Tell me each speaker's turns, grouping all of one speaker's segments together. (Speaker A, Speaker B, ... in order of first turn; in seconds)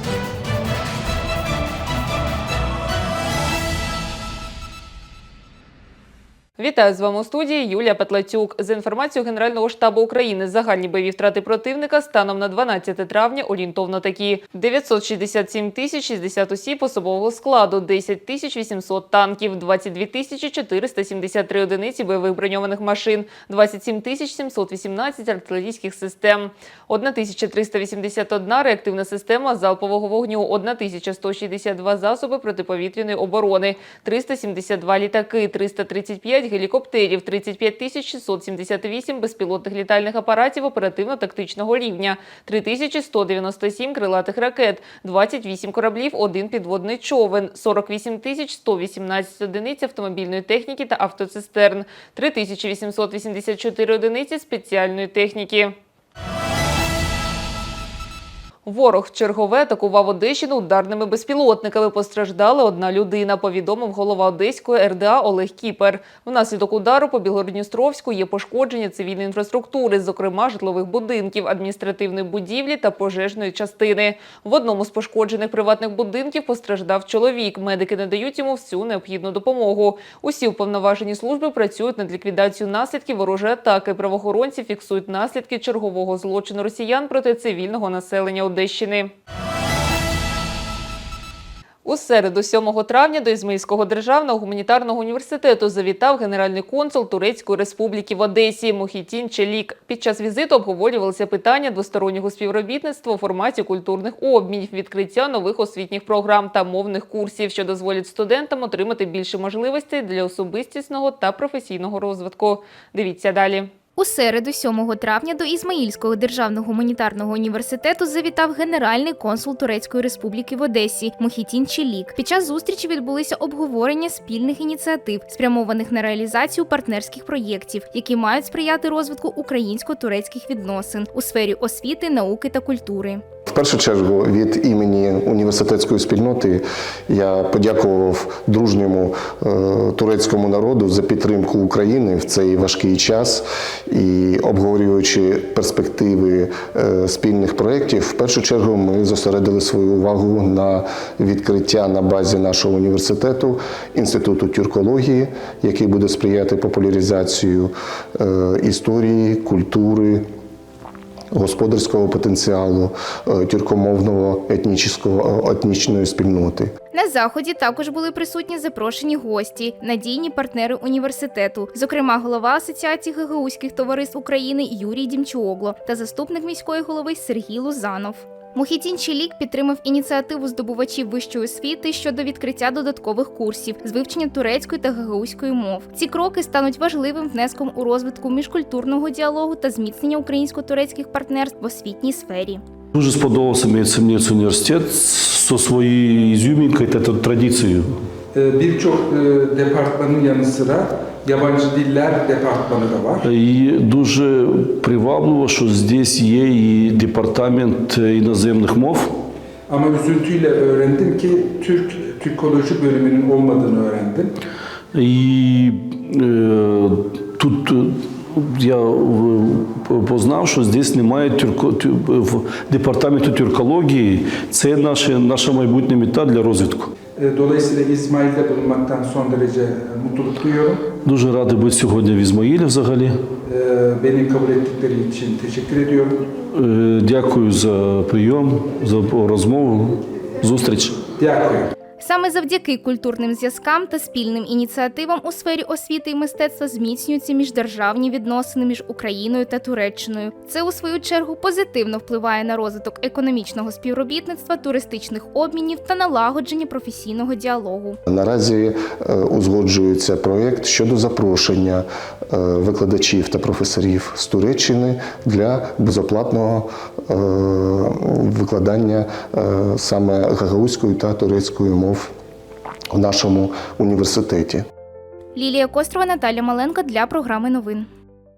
Speaker A: 6.6-55.8, 58.7-89.1, 91.8-113.7
Speaker B: 114.0-133.2, 166.9-192.6, 242.0-258.0, 275.4-277.9
Speaker C: 133.5-160.2, 161.3-166.7, 258.1-272.1, 272.9-274.6
Speaker D: 192.9-198.0, 203.2-209.1, 214.9-226.9, 231.1-233.2, 236.4-241.0
Speaker E: 198.3-203.3, 209.7-214.3, 227.2-230.8, 233.5-236.2, 241.1-241.7